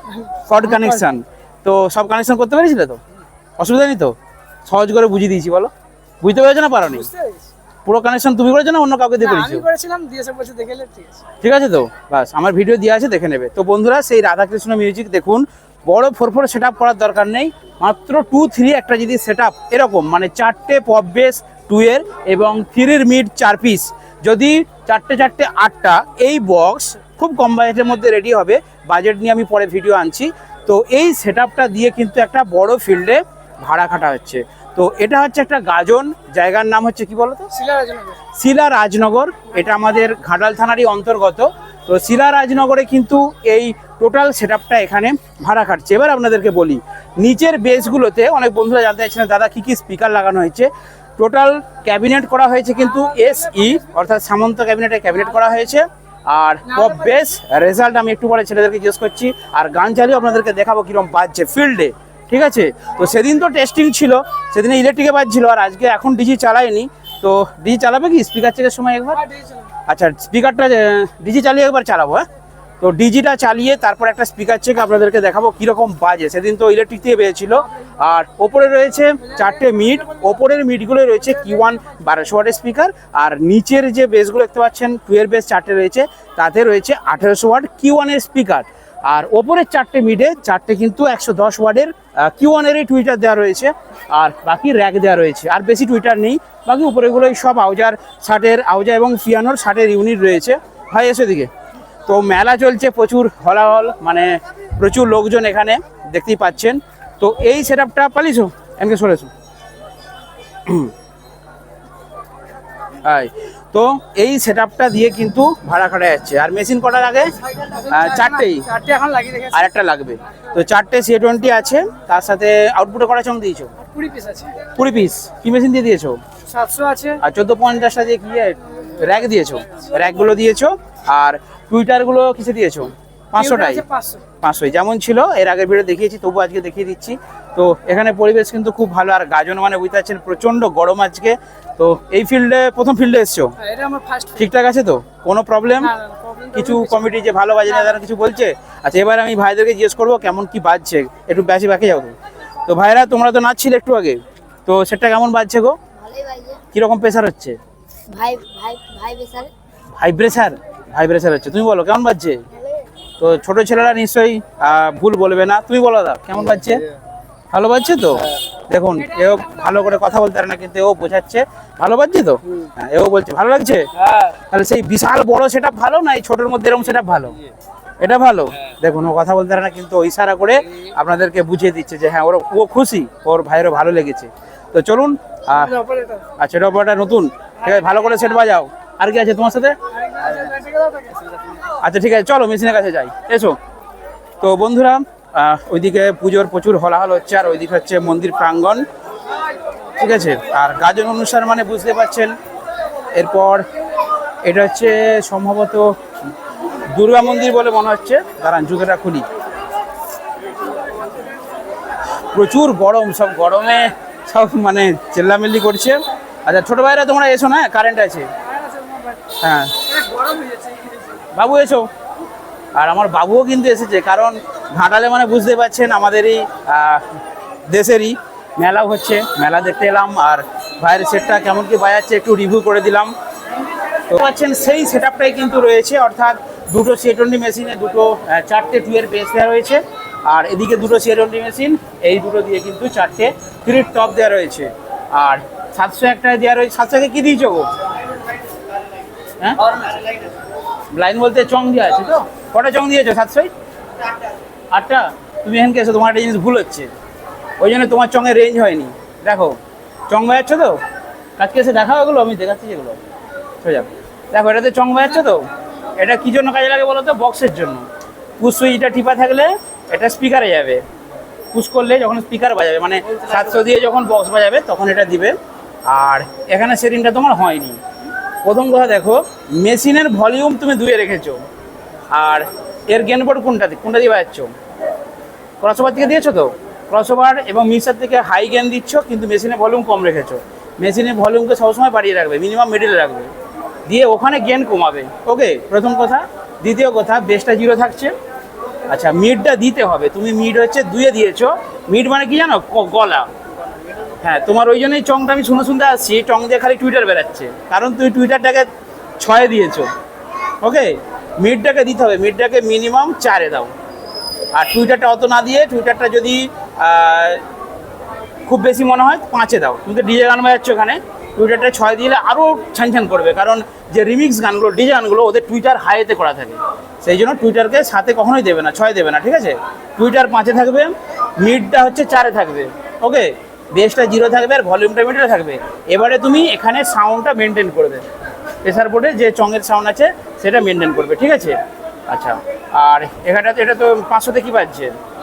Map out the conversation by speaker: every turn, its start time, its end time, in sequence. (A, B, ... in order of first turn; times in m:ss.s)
0:00.5-0:03.0 A
0:00.7-0:01.0 B
0:03.6-0:04.2 A
0:04.7-0:07.1 A
0:07.1-0:07.4 B
0:07.8-0:09.7 A
0:09.2-0:11.2 B
0:11.4-0:37.5 A
0:37.5-0:38.2 B
0:38.3-1:09.2 A
0:53.1-0:53.4 B
0:56.7-0:57.2 B
1:09.2-1:09.7 B
1:09.9-1:12.3 A
1:12.8-1:41.5 A
1:42.1-1:49.3 A
1:50.7-1:50.9 A
1:53.0-1:57.3 A
1:57.7-1:59.7 B
1:57.9-1:58.7 A
1:59.5-2:03.7 A
2:03.8-2:04.6 B
2:04.7-2:06.2 A
2:06.5-2:07.2 B
2:07.2-2:13.8 A
2:13.4-2:14.2 B
2:14.4-2:23.6 A
2:23.6-2:24.4 B
2:24.4-2:25.9 A
2:25.8-2:27.2 B
2:26.5-2:35.8 A
2:35.9-2:36.6 C
2:36.7-2:37.6 A
2:38.1-2:39.5 C
2:40.0-2:42.5 A
2:42.6-2:42.8 C
2:43.2-2:46.9 A
2:47.5-2:57.4 A
2:58.0-3:05.8 A
3:05.7-3:06.2 B
3:06.4-3:09.8 A
3:09.9-3:11.3 B
3:11.8-3:13.6 A
3:14.4-3:18.9 A
3:20.0-3:22.4 A
3:23.1-3:23.6 A
3:24.4-3:26.0 A
3:26.9-3:29.3 A
3:32.3-3:38.3 A
3:38.5-3:39.2 B
3:39.3-3:39.9 A
3:40.0-3:41.1 B
3:41.3-3:41.9 A
3:42.7-3:47.1 A
3:47.7-3:53.1 A
3:54.1-4:07.7 A
4:09.4-4:09.9 A
4:10.9-4:13.5 A
4:14.7-4:16.9 A
4:17.6-4:19.6 A
4:20.1-4:20.8 A
4:21.4-4:23.0 A
4:23.6-4:25.5 A
4:26.0-4:27.9 A
4:28.4-4:30.8 A
4:31.5-4:35.4 A
4:35.9-4:37.8 A
4:38.4-4:41.4 A
4:42.1-4:44.5 A
4:45.6-4:53.3 A
4:53.9-4:58.1 A
4:58.9-5:03.3 A
5:04.2-5:08.7 A
5:09.2-5:09.9 A
5:10.6-5:13.7 A
5:14.5-5:17.4 A
5:18.5-5:38.0 A
5:38.6-5:45.0 A